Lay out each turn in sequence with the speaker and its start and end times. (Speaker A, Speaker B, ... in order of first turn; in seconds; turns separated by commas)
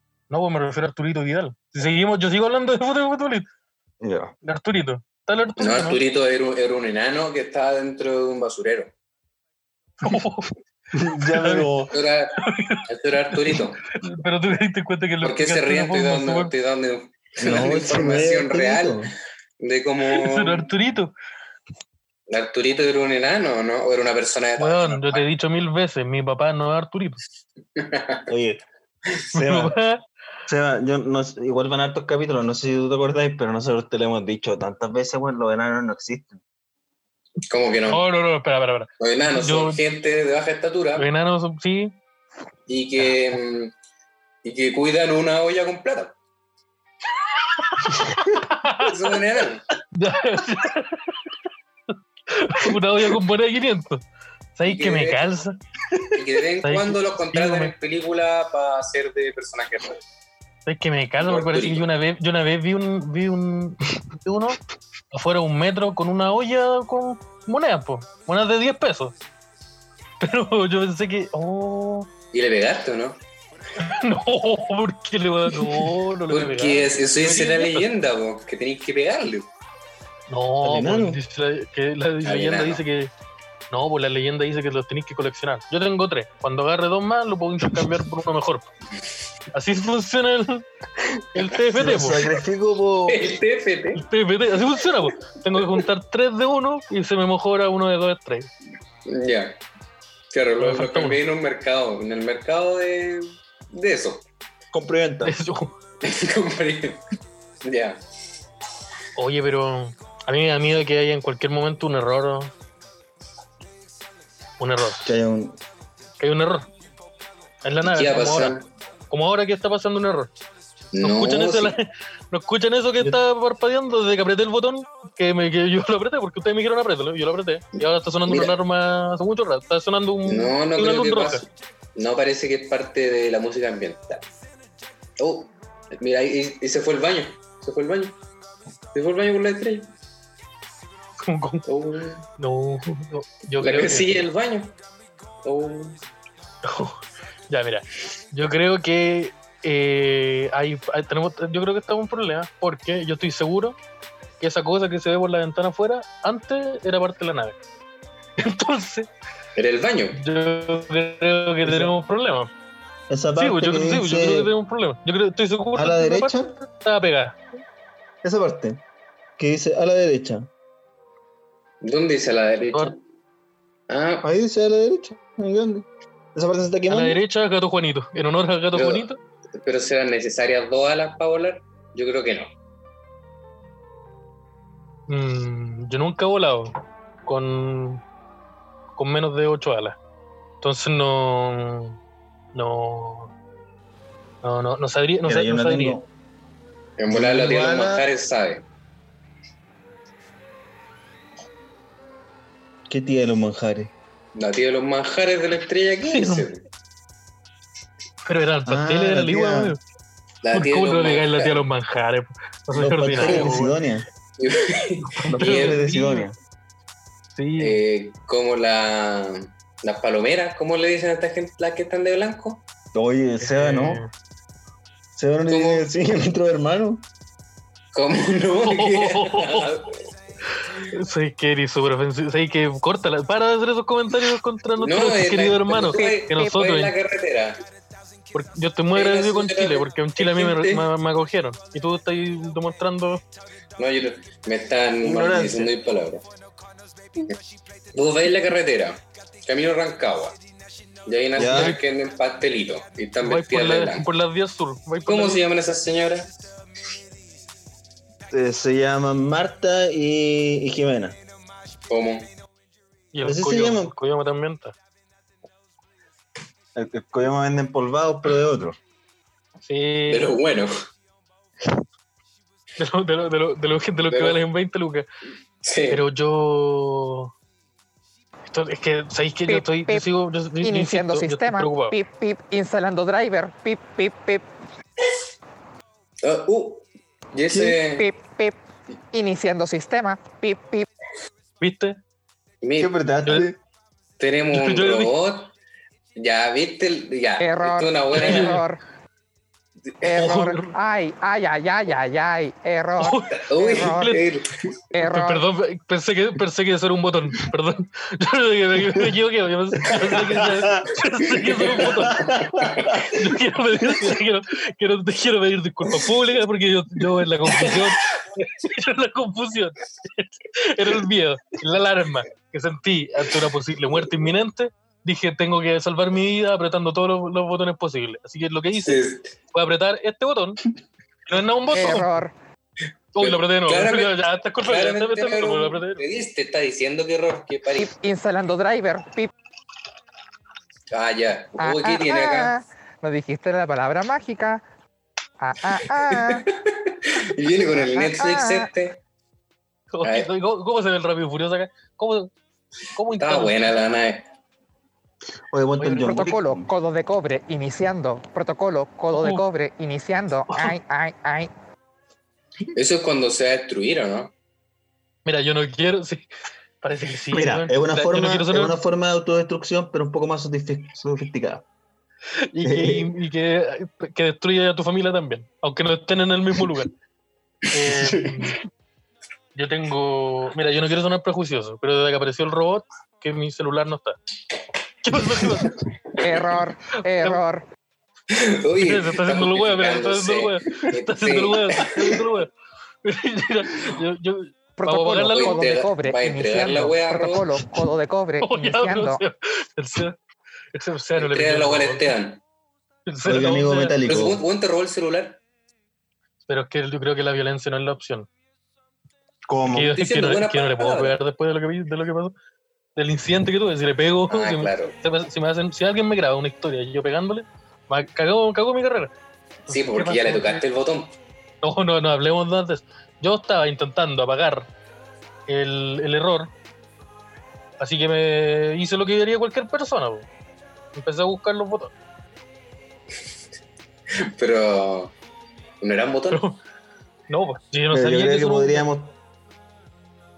Speaker A: 0.3-3.5, Speaker B: 4.0-4.3, Speaker A: 4.4-6.0, Speaker C: 5.6-8.9, Speaker A: 10.0-10.5, Speaker B: 10.9-11.9, Speaker A: 11.3-11.8, Speaker C: 11.9-13.9, Speaker A: 12.4-16.5, Speaker C: 15.2-19.1, Speaker B: 17.4-19.1, Speaker C: 19.6-20.7, Speaker A: 20.1-21.1, Speaker C: 22.3-25.3, Speaker A: 24.6-27.2, Speaker C: 27.8-28.2, Speaker B: 28.3-28.6, Speaker B: 29.3-29.8, Speaker A: 29.4-30.0, Speaker B: 30.5-36.4, Speaker C: 37.4-38.0, Speaker A: 37.9-39.8, Speaker C: 39.0-41.1, Speaker A: 41.0-42.0, Speaker C: 42.7-43.7, Speaker C: 44.4-46.2, Speaker A: 47.7-49.1, Speaker C: 48.8-49.6, Speaker A: 49.9-51.2, Speaker A: 52.3-54.0, Speaker A: 54.6-55.6, Speaker C: 54.6-55.3, Speaker C: 56.1-60.0, Speaker A: 56.6-57.7, Speaker A: 60.7-64.6, Speaker C: 61.2-61.9, Speaker A: 65.1-69.2, Speaker A: 70.2-72.1, Speaker C: 72.3-73.2, Speaker A: 73.8-77.9, Speaker C: 76.3-79.5, Speaker A: 80.3-83.1, Speaker B: 80.6-81.2, Speaker C: 82.2-82.8, Speaker A: 83.7-88.7, Speaker A: 89.5-92.3, Speaker B: 91.8-93.3, Speaker C: 93.1-94.0, Speaker A: 94.0-98.5, Speaker C: 99.1-99.6, Speaker C: 100.3-104.2, Speaker A: 100.6-101.2, Speaker B: 104.7-105.3, Speaker A: 105.2-105.8, Speaker C: 106.0-107.0, Speaker C: 107.6-108.0, Speaker A: 109.2-112.5, Speaker A: 114.6-115.1, Speaker B: 115.0-115.6, Speaker A: 116.2-116.7, Speaker A: 117.6-118.6, Speaker C: 117.8-118.7, Speaker A: 119.1-120.3, Speaker C: 120.9-121.8, Speaker A: 121.0-131.4, Speaker C: 128.3-128.6, Speaker C: 130.3-134.2, Speaker C: 135.2-138.2, Speaker C: 138.9-139.9, Speaker A: 141.2-141.7, Speaker C: 141.7-142.2, Speaker A: 142.4-144.3, Speaker C: 143.6-144.8, Speaker C: 145.4-146.0, Speaker A: 146.6-153.8, Speaker A: 154.4-157.6, Speaker A: 158.4-159.1, Speaker C: 159.6-160.2, Speaker A: 160.2-162.5, Speaker B: 161.6-161.9, Speaker B: 163.1-164.5, Speaker A: 163.4-167.4, Speaker B: 165.8-166.6, Speaker B: 168.2-168.8, Speaker B: 169.4-170.5, Speaker C: 171.8-173.0, Speaker C: 173.9-174.3, Speaker B: 174.2-177.2, Speaker A: 176.9-179.2, Speaker C: 178.7-182.5, Speaker A: 185.1-186.7, Speaker A: 187.3-188.0, Speaker A: 189.0-190.0, Speaker A: 190.6-192.0, Speaker A: 192.6-193.3, Speaker A: 194.4-196.0, Speaker B: 195.2-196.1, Speaker C: 197.0-198.6, Speaker B: 197.1-198.1, Speaker B: 202.9-203.9, Speaker C: 204.3-206.6, Speaker A: 206.1-206.5, Speaker A: 208.3-209.8, Speaker B: 208.7-209.8, Speaker C: 210.4-211.6, Speaker A: 210.5-213.8, Speaker B: 212.7-214.1, Speaker C: 213.2-213.5, Speaker C: 214.4-215.8, Speaker A: 215.0-216.3, Speaker B: 215.3-216.4, Speaker A: 217.4-217.8, Speaker C: 217.6-222.6, Speaker B: 222.9-224.0, Speaker A: 223.4-224.1, Speaker B: 225.2-227.0, Speaker C: 225.5-225.8, Speaker C: 227.9-230.0, Speaker A: 228.7-229.7, Speaker A: 230.6-236.9, Speaker C: 234.8-237.6, Speaker D: 235.9-236.5, Speaker A: 238.3-243.2, Speaker C: 238.9-240.9, Speaker C: 243.8-246.2, Speaker B: 245.0-245.8, Speaker C: 247.9-250.4, Speaker C: 251.1-254.1, Speaker B: 251.4-251.8, Speaker A: 251.5-251.8, Speaker A: 253.2-255.4, Speaker C: 255.1-256.3, Speaker B: 258.3-261.2, Speaker C: 261.9-262.3, Speaker A: 263.1-264.8, Speaker B: 263.2-263.9, Speaker B: 266.8-268.8, Speaker A: 269.6-270.3, Speaker C: 270.1-270.7, Speaker A: 272.8-275.1, Speaker C: 274.1-274.4, Speaker C: 275.6-276.0, Speaker A: 275.9-277.3, Speaker A: 278.5-282.0, Speaker D: 279.5-280.1, Speaker D: 280.6-284.5, Speaker C: 286.2-288.1, Speaker B: 287.5-287.8, Speaker D: 287.9-288.6, Speaker D: 289.1-290.9, Speaker A: 291.6-292.0, Speaker C: 292.6-292.9, Speaker B: 292.8-293.6, Speaker C: 294.2-295.5, Speaker A: 294.5-295.1, Speaker C: 296.2-298.6, Speaker D: 297.4-298.8, Speaker A: 298.1-298.6, Speaker D: 300.0-304.2, Speaker A: 300.1-300.8, Speaker A: 303.0-304.2, Speaker C: 303.4-304.7, Speaker D: 304.9-305.4, Speaker A: 305.0-312.3, Speaker B: 310.3-310.9, Speaker C: 311.5-313.0, Speaker B: 311.9-313.4, Speaker A: 313.1-330.6, Speaker C: 328.8-329.4, Speaker A: 331.3-332.1, Speaker D: 331.7-332.4, Speaker A: 333.1-336.0, Speaker C: 333.2-337.9, Speaker D: 337.8-339.3, Speaker C: 340.9-342.5, Speaker D: 341.6-344.6, Speaker D: 345.4-346.4, Speaker C: 346.1-349.0, Speaker D: 347.8-348.7, Speaker A: 349.9-352.3, Speaker C: 350.0-350.3, Speaker A: 352.9-353.6, Speaker C: 353.2-354.3, Speaker B: 355.5-356.7, Speaker A: 355.8-356.3, Speaker D: 355.9-361.5, Speaker A: 359.1-359.4, Speaker A: 360.5-360.8, Speaker C: 362.8-364.3, Speaker A: 365.3-366.2, Speaker A: 366.8-368.8, Speaker B: 367.3-371.7, Speaker A: 372.5-376.9, Speaker B: 372.6-373.1, Speaker A: 377.7-378.6, Speaker C: 378.0-378.3, Speaker A: 379.6-384.2, Speaker A: 385.0-385.8, Speaker D: 386.2-387.6, Speaker C: 388.3-392.2, Speaker A: 388.8-392.5, Speaker A: 393.0-395.6, Speaker D: 394.8-399.2, Speaker C: 395.3-397.5, Speaker A: 398.4-400.2, Speaker A: 400.7-402.1, Speaker C: 401.2-402.4, Speaker A: 403.1-404.0, Speaker B: 403.2-404.4, Speaker C: 404.1-405.4, Speaker A: 406.5-408.3, Speaker B: 409.5-410.0, Speaker A: 409.7-412.3, Speaker C: 409.9-411.2, Speaker A: 413.0-419.1, Speaker C: 414.3-415.0, Speaker A: 419.7-420.6, Speaker C: 419.7-421.1, Speaker A: 421.6-424.7, Speaker A: 425.5-426.5, Speaker A: 427.8-430.3, Speaker A: 430.9-431.9, Speaker C: 434.2-435.1, Speaker C: 435.8-436.4, Speaker A: 436.3-436.6, Speaker A: 437.3-438.9, Speaker B: 437.9-439.2